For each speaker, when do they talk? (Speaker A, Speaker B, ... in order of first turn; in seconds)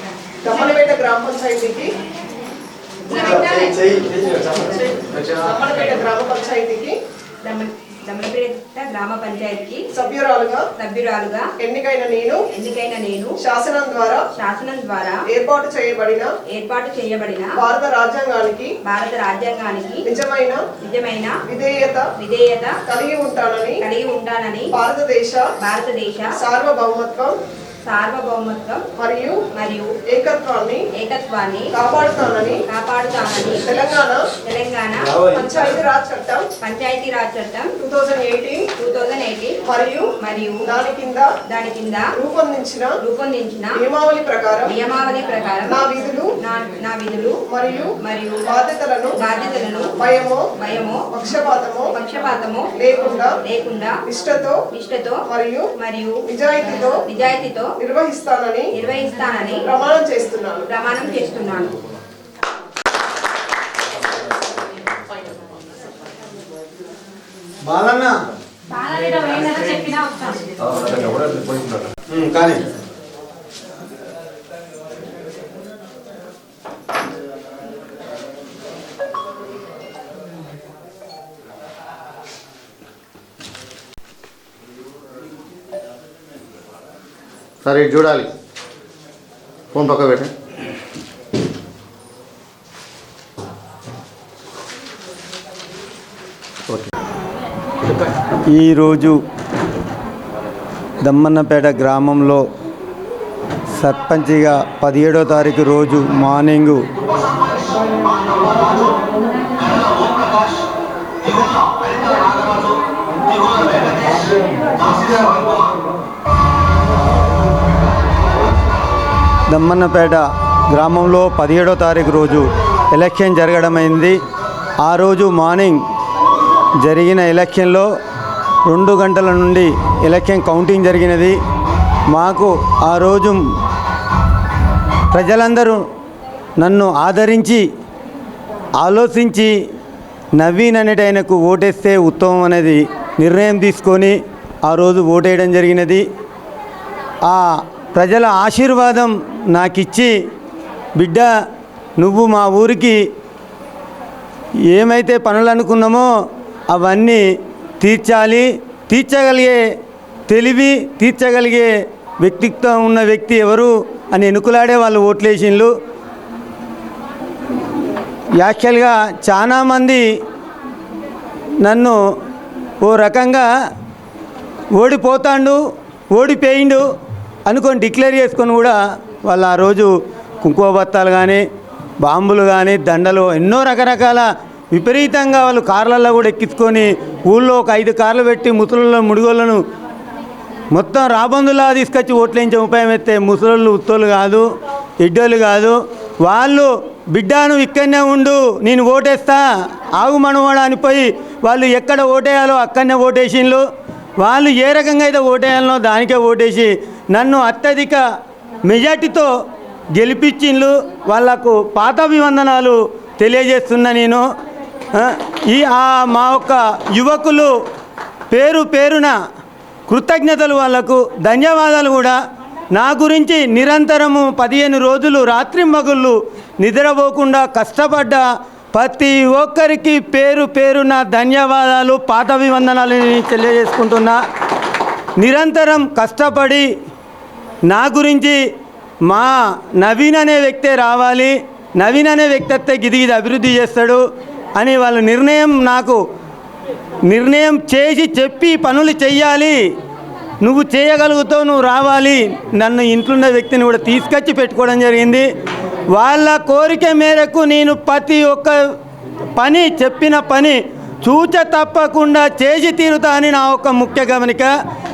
Speaker A: 0.4-1.9, 5.2-7.0, 9.9-10.7, 11.6-12.4, 13.4-14.3, 15.3-16.3, 17.6-18.7, 20.1-20.6, 21.5-22.1, 22.9-23.8, 24.7-25.5, 26.4-27.4, 29.0-29.4, 30.1-30.9, 31.7-32.6, 33.6-34.3, 35.3-36.5, 37.8-38.7, 39.6-40.1, 40.6-41.4, 42.1-43.0, 43.8-44.8, 45.7-46.3, 47.5-49.2, 50.0-50.5, 51.1-52.0, 52.8-53.4, 54.1-54.6, 55.3-55.7, 56.2-57.0, 57.8-58.7, 59.6-60.7
Speaker B: 3.1-5.1, 7.4-9.8, 10.8-11.5, 12.5-13.4, 14.3-15.2, 16.5-17.6, 18.8-20.0, 20.8-21.4, 22.2-22.8, 23.8-24.7, 25.6-26.4, 27.8-28.8, 29.5-29.9, 30.9-31.7, 32.7-33.6, 34.4-35.7, 36.6-37.7, 38.8-39.6, 40.2-40.7, 41.5-42.1, 43.0-43.8, 44.6-45.9, 46.4-47.4, 48.0-48.5, 49.2-50.0, 50.5-51.1, 51.9-52.7, 53.4-54.0, 54.7-55.2, 55.7-56.2, 57.0-57.7, 58.7-59.7, 60.7-61.7, 68.8-70.4
Speaker C: 3.1-4.6, 35.0-35.5, 67.6-68.1, 72.1-72.6, 98.5-99.2, 101.0-102.4, 103.7-106.8, 119.5-124.2, 124.8-125.8, 126.8-127.9, 128.7-131.4, 132.1-133.4, 135.1-135.8, 136.6-137.7, 138.8-139.5, 140.4-146.0, 147.2-150.1, 151.0-151.3, 152.0-153.0, 154.7-156.1, 156.7-157.2, 157.8-159.6, 160.3-165.7, 168.4-170.0, 171.6-172.0, 172.8-173.5, 174.7-175.6, 176.1-176.8, 177.4-181.4, 182.0-189.6, 190.7-194.5, 195.0-203.6, 204.2-208.0, 208.6-209.3, 209.9-214.2, 214.9-217.5, 218.3-219.1, 219.9-222.2, 222.7-234.2, 235.2-236.7, 237.7-238.4, 239.1-244.0, 244.6-246.0, 247.0-249.6, 250.4-255.2, 255.9-258.6, 259.4-264.5
Speaker D: 70.7-71.8, 87.6-88.3, 89.7-90.3